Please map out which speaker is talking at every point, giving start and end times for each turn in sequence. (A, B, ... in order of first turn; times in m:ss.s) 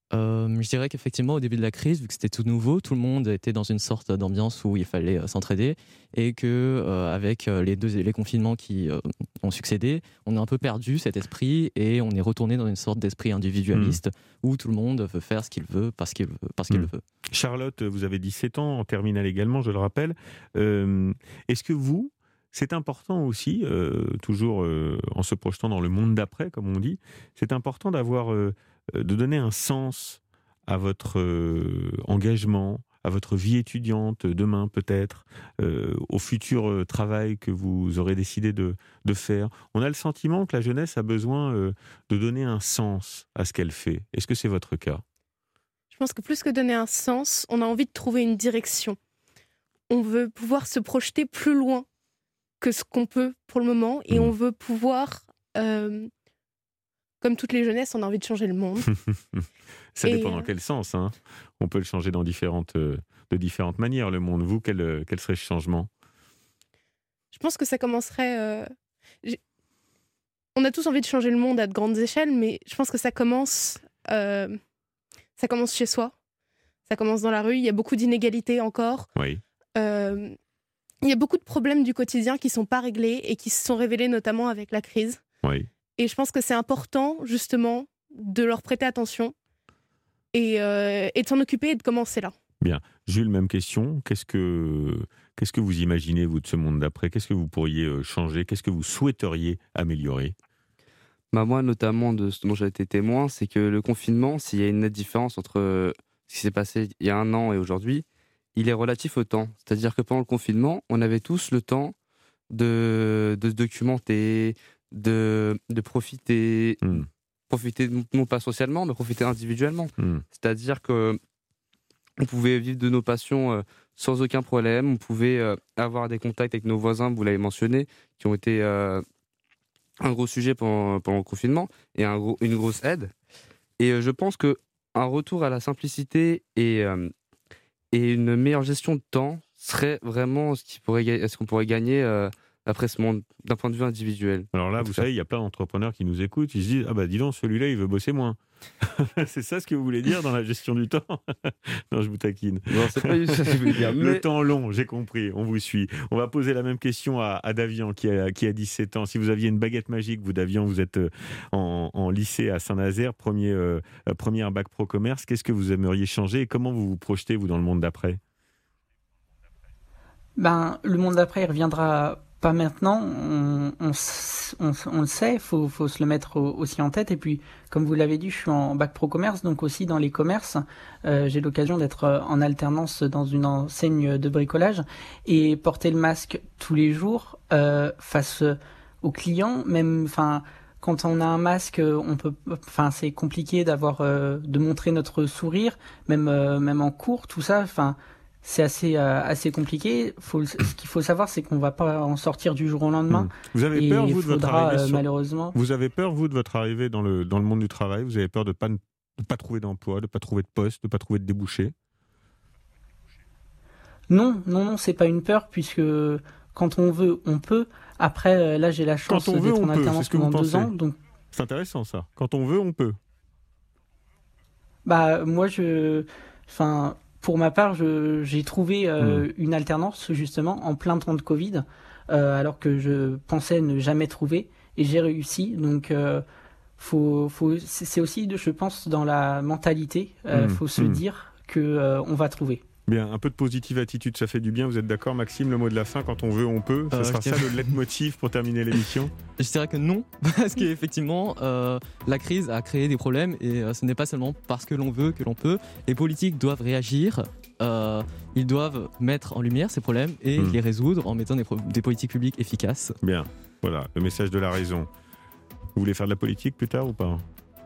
0:00.1-0:17.0 A
0:13.7-0:14.0 B
0:16.7-0:45.0 B
0:45.9-0:49.0 C
0:49.9-0:51.9 C
0:52.6-0:56.1 C
0:57.2-0:58.9 C
1:00.0-1:05.9 B
1:00.1-1:00.5 C
1:07.3-1:08.7 C
1:10.6-1:14.6 C
1:15.4-1:16.1 C
1:16.9-1:19.1 C
1:19.2-1:19.4 B
1:19.8-1:20.4 C
1:21.0-1:25.2 C
1:25.4-1:25.7 B
1:26.0-1:29.3 C
1:30.3-1:32.3 C
1:32.6-1:40.4 B
1:41.3-1:48.0 D
1:48.6-1:51.9 D
1:52.5-1:56.8 D
1:57.5-2:01.2 D
2:00.0-2:00.2 B
2:02.2-2:09.0 D
2:10.0-2:13.1 D
2:13.8-2:17.1 D
2:17.9-2:25.0 D
2:24.5-2:33.1 B
2:32.7-2:34.2 D
2:33.6-2:48.2 B
2:50.4-3:25.6 E
3:23.1-3:25.0 B
3:25.5-3:31.7 B
3:34.1-3:41.0 E
3:39.1-3:40.7 B
3:41.3-3:43.0 B
3:44.8-3:56.2 E
3:49.0-3:49.3 B
3:56.8-4:02.6 E
4:00.3-4:01.0 B
4:02.9-4:09.1 B
4:06.9-4:07.8 A
4:09.4-4:22.9 A
4:23.0-4:24.9 B
4:25.8-4:27.2 B